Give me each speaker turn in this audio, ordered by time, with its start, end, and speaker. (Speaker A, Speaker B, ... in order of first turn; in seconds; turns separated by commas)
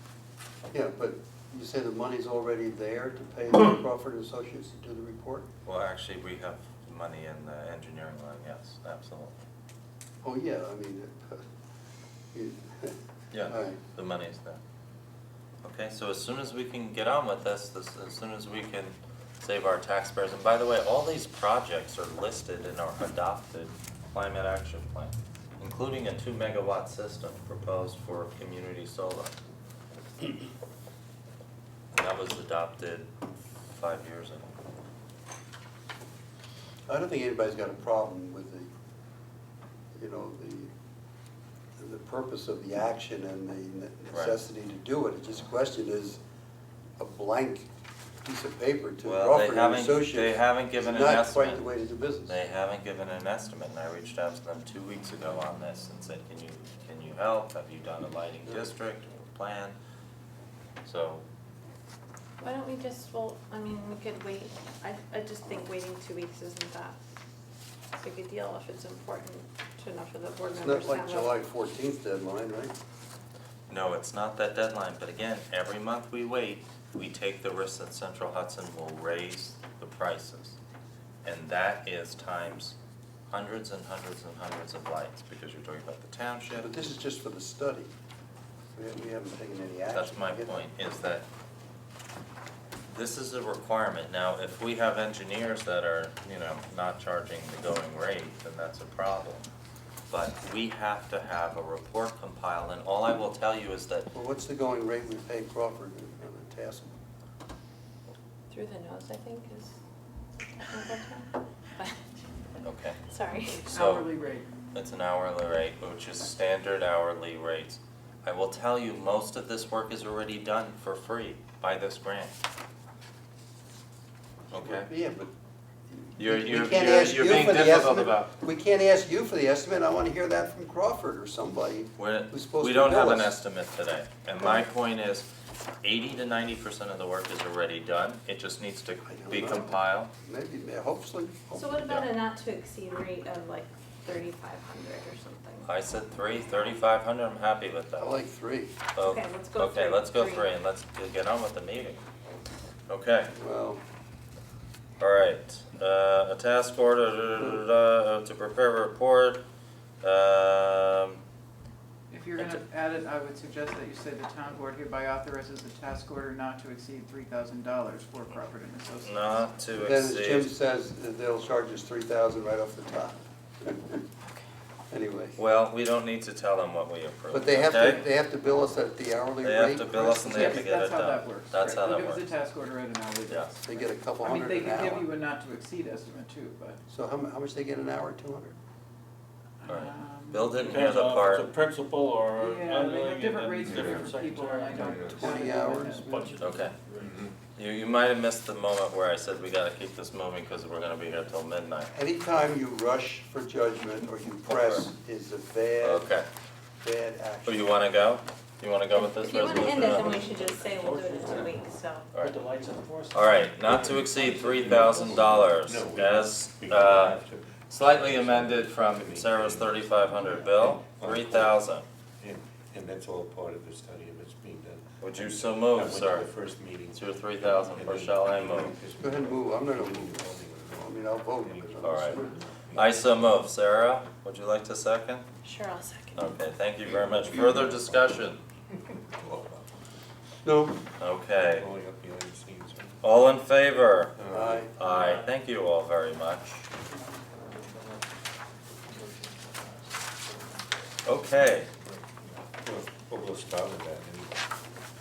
Speaker A: 0.7-5.5, Speaker B: 5.7-9.4, Speaker A: 10.2-11.4, Speaker A: 12.3-12.9, Speaker B: 13.3-14.6, Speaker A: 13.5-13.8, Speaker B: 15.6-29.4, Speaker B: 31.9-34.5, Speaker A: 36.9-38.7, Speaker A: 39.9-40.7, Speaker A: 41.8-46.2, Speaker B: 44.1-44.4, Speaker A: 47.0-47.7, Speaker A: 48.2-52.4, Speaker B: 49.0-51.6, Speaker B: 52.3-59.8, Speaker B: 60.8-61.2, Speaker C: 62.4-67.0, Speaker C: 68.0-71.3, Speaker A: 70.4-72.8, Speaker B: 73.7-80.6, Speaker B: 81.2-82.8, Speaker B: 83.3-86.7, Speaker A: 86.5-87.9, Speaker A: 88.8-90.7, Speaker B: 89.9-91.3, Speaker B: 92.9-99.5, Speaker B: 100.1-104.1, Speaker A: 104.1-107.0, Speaker C: 108.5-109.7, Speaker C: 110.5-112.0, Speaker B: 112.6-113.0, Speaker C: 113.1-113.7, Speaker B: 113.6-114.1, Speaker D: 113.7-114.5, Speaker B: 114.7-122.3, Speaker B: 124.5-124.9, Speaker A: 124.6-125.3, Speaker A: 125.9-133.4, Speaker B: 126.2-128.3, Speaker B: 132.0-135.3, Speaker B: 135.8-140.1, Speaker A: 139.1-141.9, Speaker C: 141.5-145.7, Speaker B: 145.7-148.2, Speaker A: 148.0-148.7, Speaker B: 149.0-152.0, Speaker C: 149.0-150.5, Speaker B: 152.9-153.3, Speaker A: 153.3-153.8, Speaker B: 155.0-159.4, Speaker B: 160.0-161.2, Speaker D: 162.1-169.5, Speaker B: 162.3-162.6, Speaker B: 169.0-170.5, Speaker A: 169.8-174.0, Speaker A: 174.9-175.4, Speaker B: 175.4-178.1, Speaker A: 177.3-180.7, Speaker B: 179.4-182.3, Speaker D: 180.1-186.8, Speaker B: 183.3-183.6, Speaker A: 183.7-185.1, Speaker A: 186.9-188.6, Speaker D: 189.6-190.5, Speaker B: 189.7-191.5, Speaker E: 190.4-195.6, Speaker D: 192.4-196.5, Speaker F: 193.7-194.0, Speaker F: 194.8-195.1, Speaker A: 195.0-196.3, Speaker E: 196.1-197.3, Speaker B: 196.4-196.8, Speaker F: 197.0-197.3, Speaker B: 197.6-201.9, Speaker A: 201.9-206.1, Speaker B: 204.5-204.9, Speaker B: 205.8-206.3, Speaker A: 206.8-207.8, Speaker B: 207.4-210.2, Speaker C: 208.9-212.1, Speaker E: 209.8-211.6, Speaker B: 212.1-212.5, Speaker E: 212.2-215.6, Speaker B: 213.1-221.8, Speaker F: 214.7-219.9, Speaker F: 220.5-221.6, Speaker F: 222.2-233.4, Speaker B: 225.0-226.3, Speaker B: 226.9-228.8, Speaker A: 229.0-232.3, Speaker B: 231.8-232.2, Speaker B: 232.8-235.3, Speaker C: 235.4-236.4, Speaker B: 236.2-238.4, Speaker F: 236.8-238.2, Speaker F: 238.8-239.7, Speaker A: 240.4-240.8, Speaker B: 241.0-241.7, Speaker F: 241.3-243.1, Speaker B: 243.0-244.2, Speaker F: 244.2-244.7, Speaker A: 244.3-244.7, Speaker B: 244.8-246.7, Speaker E: 244.8-245.2, Speaker E: 247.5-248.0, Speaker E: 248.9-249.5, Speaker B: 251.1-251.7, Speaker F: 252.6-254.4